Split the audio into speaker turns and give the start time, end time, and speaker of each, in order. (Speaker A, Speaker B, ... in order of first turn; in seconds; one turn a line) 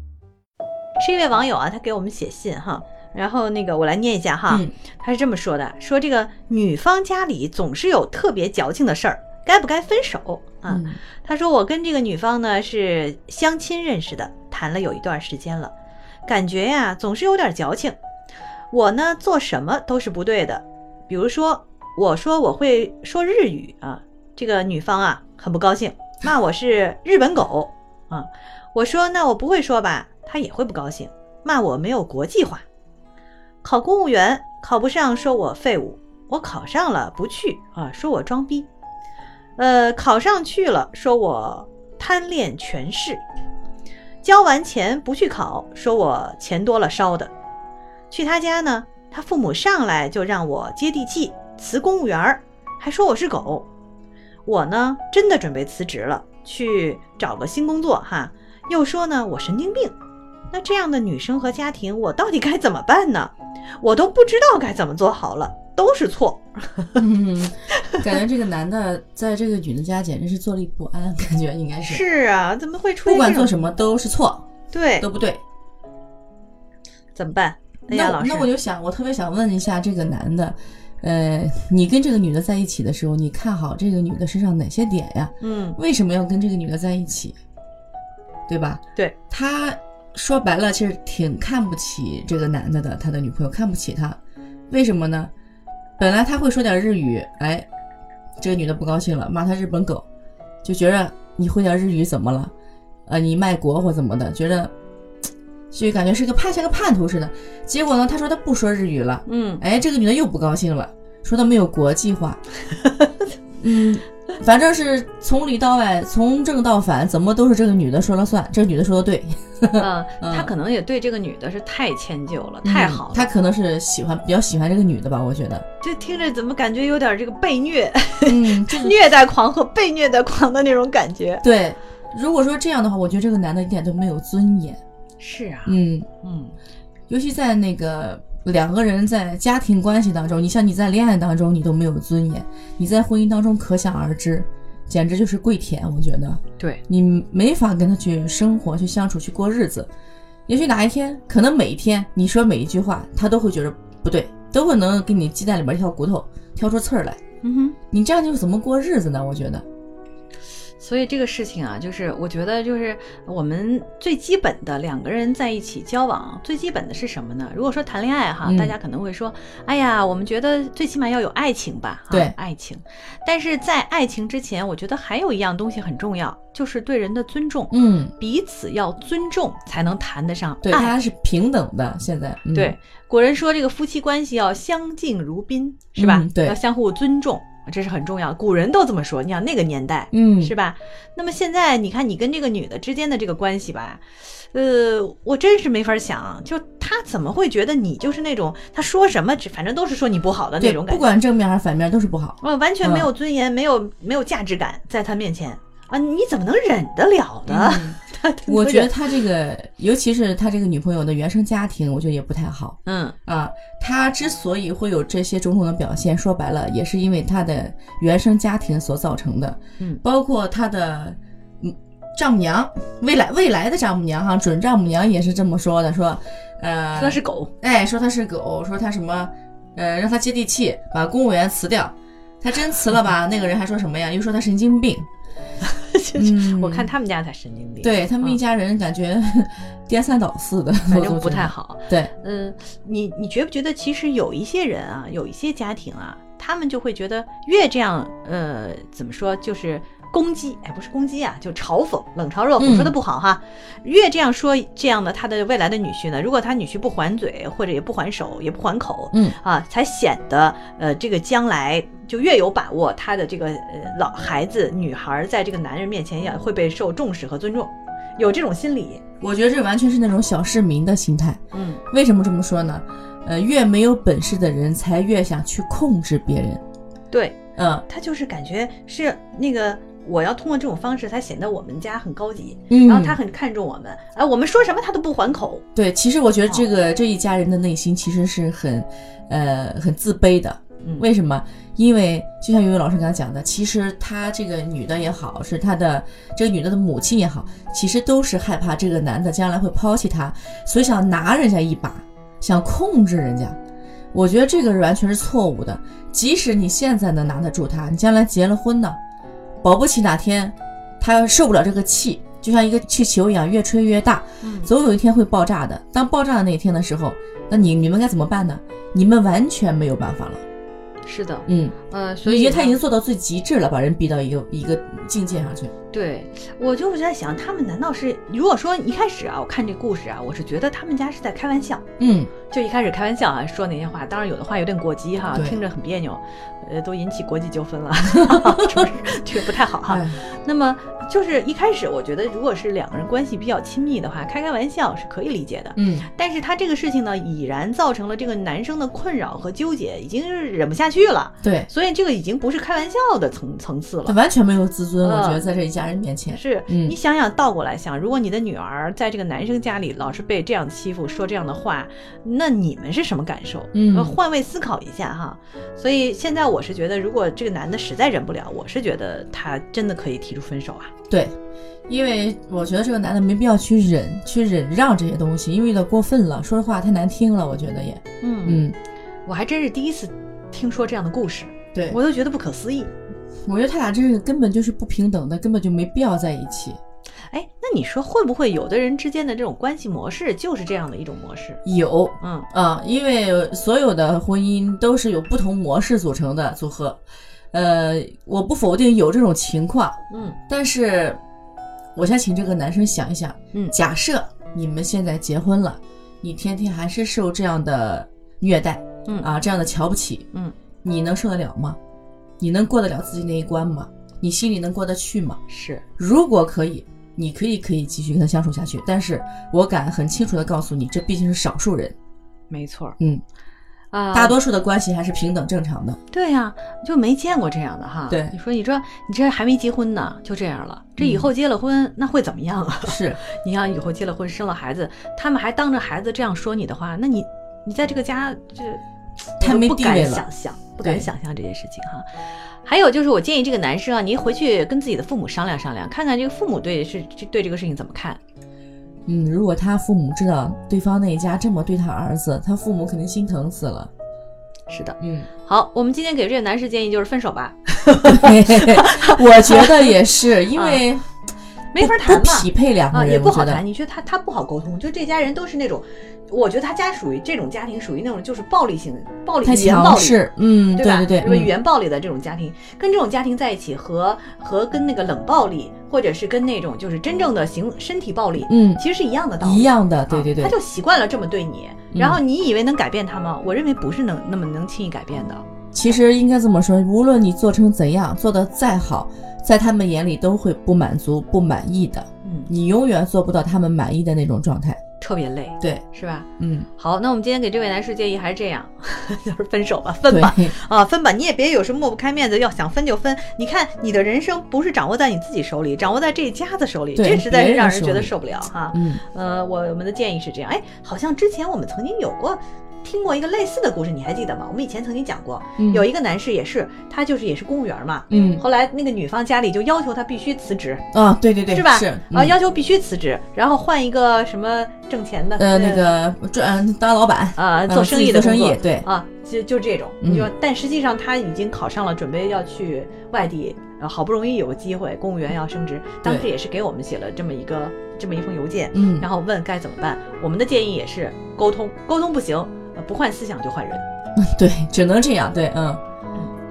Speaker A: 1.0-15.7
Speaker B: 10.7-11.0
Speaker A: 16.3-18.0
Speaker A: 18.7-32.6
Speaker A: 33.6-38.7
Speaker A: 39.6-43.2
Speaker A: 44.2-47.3
Speaker A: 48.1-53.7
Speaker A: 54.4-59.9
Speaker A: 60.5-67.0
Speaker B: 66.9-72.0
Speaker A: 71.8-73.6
Speaker B: 73.0-74.5
Speaker A: 74.7-75.0
Speaker B: 75.0-75.4
Speaker A: 77.1-78.5
Speaker B: 77.9-87.4
Speaker A: 85.4-85.8
Speaker B: 88.5-94.2
Speaker B: 94.7-95.3
Speaker B: 96.0-97.7
Speaker B: 98.4-100.0
Speaker B: 100.6-102.5
Speaker B: 103.0-104.7
Speaker B: 105.7-112.4
Speaker A: 109.2-109.6
Speaker B: 113.6-120.5
Speaker A: 119.8-123.3
Speaker B: 122.6-125.6
Speaker A: 125.8-131.4
Speaker B: 128.2-128.9
Speaker B: 131.4-134.8
Speaker A: 135.2-136.5
Speaker B: 135.7-136.1
Speaker B: 137.1-149.9
Speaker B: 150.5-157.2
Speaker A: 157.4-157.8
Speaker B: 157.9-159.6
Speaker A: 160.8-180.9
Speaker B: 168.4-168.8
Speaker B: 177.7-178.1
Speaker B: 180.6-182.7
Speaker A: 182.5-201.1
Speaker B: 186.0-186.6
Speaker B: 190.1-190.5
Speaker B: 200.6-203.1
Speaker A: 202.4-208.9
Speaker B: 207.5-235.1
Speaker A: 212.8-213.2
Speaker A: 226.9-227.5
Speaker A: 235.6-238.4
Speaker B: 236.2-236.9
Speaker B: 237.8-242.1
Speaker A: 240.9-269.0
Speaker B: 252.6-252.9
Speaker B: 259.1-259.4
Speaker B: 269.2-271.4
Speaker A: 271.5-271.8
Speaker B: 271.9-276.6
Speaker A: 277.1-285.6
Speaker B: 277.6-277.8
Speaker B: 282.7-283.2
Speaker B: 285.7-303.6
Speaker B: 304.1-309.0
Speaker B: 309.6-320.4
Speaker A: 314.4-314.7
Speaker A: 321.0-322.8
Speaker B: 321.5-325.7
Speaker A: 325.9-331.8
Speaker B: 332.0-332.3
Speaker A: 332.5-354.2
Speaker B: 335.3-335.6
Speaker B: 338.1-338.8
Speaker B: 339.9-340.2
Speaker B: 345.8-346.1
Speaker B: 351.4-351.7
Speaker B: 354.0-356.9
Speaker A: 355.0-355.4
Speaker A: 356.3-370.9
Speaker B: 363.7-364.2
Speaker B: 371.1-371.3
Speaker B: 371.9-378.8
Speaker A: 378.2-378.6
Speaker A: 379.2-382.9
Speaker B: 383.4-386.8
Speaker A: 387.3-391.6
Speaker B: 391.6-401.2
Speaker A: 392.2-392.5
Speaker A: 400.1-400.4
Speaker B: 401.9-410.2
Speaker B: 410.8-411.8
Speaker B: 412.4-415.4
Speaker A: 415.5-415.8
Speaker B: 416.0-421.9
Speaker A: 422.5-422.9
Speaker A: 423.9-424.4
Speaker B: 424.1-426.0
Speaker A: 426.1-438.8
Speaker B: 428.1-428.3
Speaker B: 431.0-431.3
Speaker B: 432.8-433.2
Speaker A: 439.4-448.2
Speaker B: 439.4-440.3
Speaker B: 440.8-441.1
Speaker B: 449.1-453.9
Speaker A: 454.7-459.9
Speaker B: 455.0-455.3
Speaker B: 458.0-461.1
Speaker A: 460.5-460.8
Speaker A: 461.7-470.2
Speaker B: 461.8-463.6
Speaker B: 469.4-471.5
Speaker A: 470.7-485.4
Speaker B: 478.4-478.8
Speaker B: 479.4-480.5
Speaker B: 481.9-482.2
Speaker B: 485.7-494.8
Speaker A: 492.2-492.5
Speaker A: 495.0-520.8
Speaker B: 496.4-496.7
Speaker B: 500.1-500.5
Speaker B: 506.9-508.1
Speaker B: 508.7-509.0
Speaker B: 515.6-515.9
Speaker B: 518.1-518.4
Speaker B: 520.9-522.4
Speaker A: 521.5-525.9
Speaker B: 525.4-528.9
Speaker A: 527.4-543.8
Speaker B: 530.0-530.3
Speaker B: 538.7-539.1
Speaker B: 544.2-545.8